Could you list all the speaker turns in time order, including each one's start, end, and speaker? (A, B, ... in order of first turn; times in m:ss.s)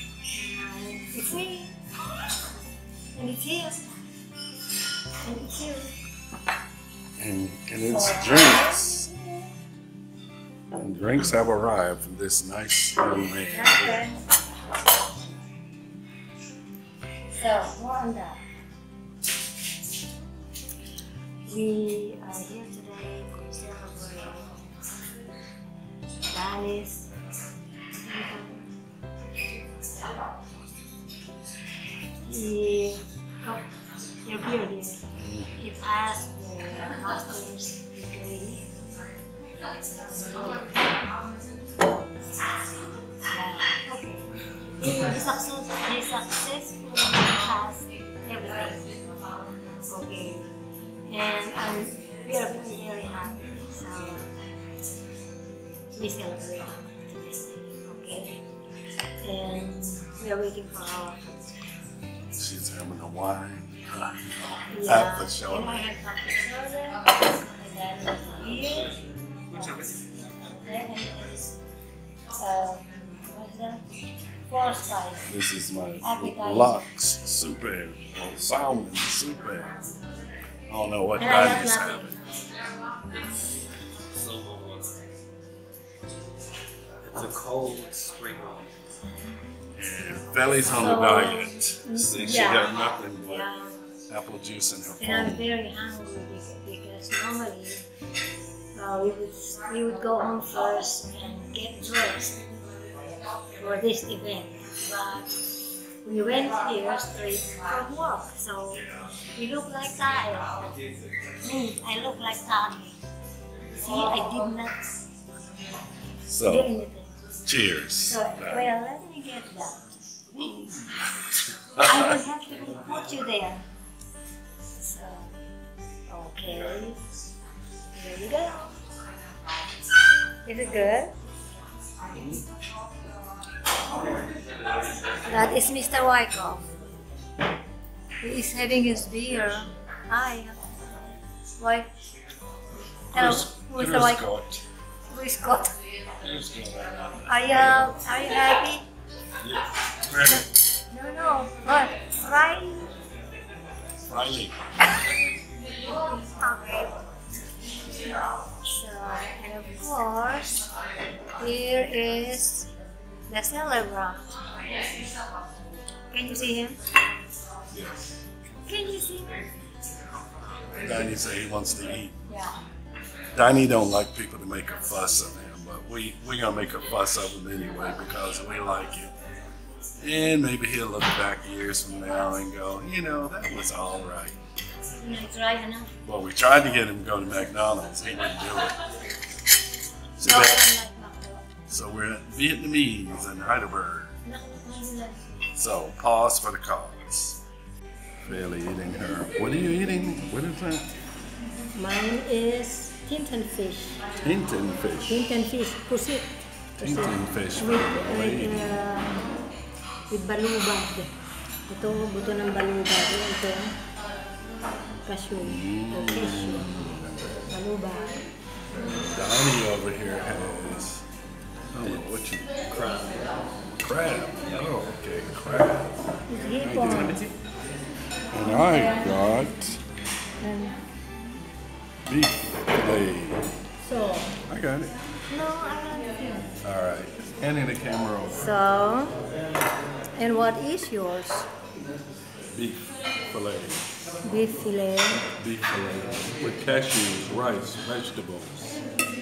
0:00.3-0:01.8 A
0:03.1-0:04.0 A
0:05.2-0:05.9 A
0:07.2-0:09.1 B
0:07.9-0:09.5 A
0:10.7-0:14.0 B
0:13.5-0:14.2 A
0:17.3-0:18.4 A
0:21.4-0:24.8 A
0:26.3-0:27.1 A
0:27.9-0:28.7 A
0:32.2-0:33.6 A
0:34.2-0:38.7 A
0:35.1-0:35.5 B
0:39.9-0:40.8 A
0:43.2-0:48.9 A
0:49.9-0:50.5 A
0:51.1-0:54.3 A
0:55.9-0:58.4 A
0:59.2-1:01.3 A
1:02.3-1:05.9 B
1:04.7-1:09.0 A
1:10.5-1:11.5 A
1:12.4-1:13.8 A
1:14.5-1:15.3 A
1:15.3-1:19.8 B
1:16.0-1:16.8 A
1:20.7-1:22.2 B
1:21.2-1:22.2 A
1:24.1-1:25.0 C
1:27.0-1:28.7 C
1:29.7-1:33.5 B
1:30.7-1:33.8 A
1:34.1-1:35.5 B
1:35.0-1:37.8 A
1:38.7-1:42.4 A
1:43.6-1:45.3 A
1:46.0-1:50.6 A
1:51.4-1:52.9 A
1:53.8-1:54.8 A
1:56.3-1:56.7 B
1:56.4-1:57.1 A
1:57.4-1:58.7 B
1:58.0-1:59.8 A
2:00.3-2:02.2 B
2:01.8-2:03.6 A
2:04.8-2:05.3 A
2:06.1-2:07.0 A
2:07.9-2:08.6 A
2:10.4-2:11.1 A
2:12.1-2:12.4 B
2:15.1-2:16.7 A
2:18.2-2:20.6 A
2:21.6-2:21.9 A
2:23.1-2:24.6 B
2:23.1-2:24.2 A
2:25.1-2:25.8 A
2:26.2-2:28.0 B
2:27.2-2:28.8 A
2:29.4-2:30.5 B
2:30.9-2:32.9 A
2:34.0-2:34.7 B
2:35.9-2:37.0 A
2:38.4-2:40.6 A
2:41.4-2:42.7 A
2:43.3-2:44.3 A
2:46.1-2:46.8 A
2:47.7-2:48.1 B
2:48.6-2:49.4 A
2:50.7-2:52.2 B
2:52.3-2:52.6 A
2:53.3-2:59.1 B
3:00.0-3:04.4 B
3:04.9-3:05.9 A
3:06.0-3:08.8 B
3:10.2-3:10.7 B
3:10.2-3:11.4 A
3:11.7-3:14.1 B
3:14.2-3:15.2 A
3:15.5-3:17.4 B
3:18.2-3:20.9 B
3:21.7-3:24.0 A
3:24.2-3:25.2 B
3:25.1-3:29.2 A
3:26.8-3:28.8 B
3:30.1-3:31.1 A
3:31.7-3:33.7 A
3:35.0-3:36.7 A
3:35.4-3:37.4 B
3:37.5-3:38.2 A
3:38.9-3:41.0 B
3:41.7-3:42.6 B
3:42.7-3:43.2 C
3:43.8-3:46.0 B
3:46.3-3:47.2 A
3:46.6-3:47.3 B
3:48.3-3:49.8 B
3:50.4-3:50.8 A
3:52.0-3:53.5 B
3:53.8-3:54.3 A
3:54.5-3:55.0 B
3:55.3-3:56.6 A
3:56.6-3:58.5 B
3:58.3-3:59.2 A
4:00.2-4:01.5 A
4:02.5-4:03.8 B
4:04.2-4:05.2 A
4:05.3-4:08.8 B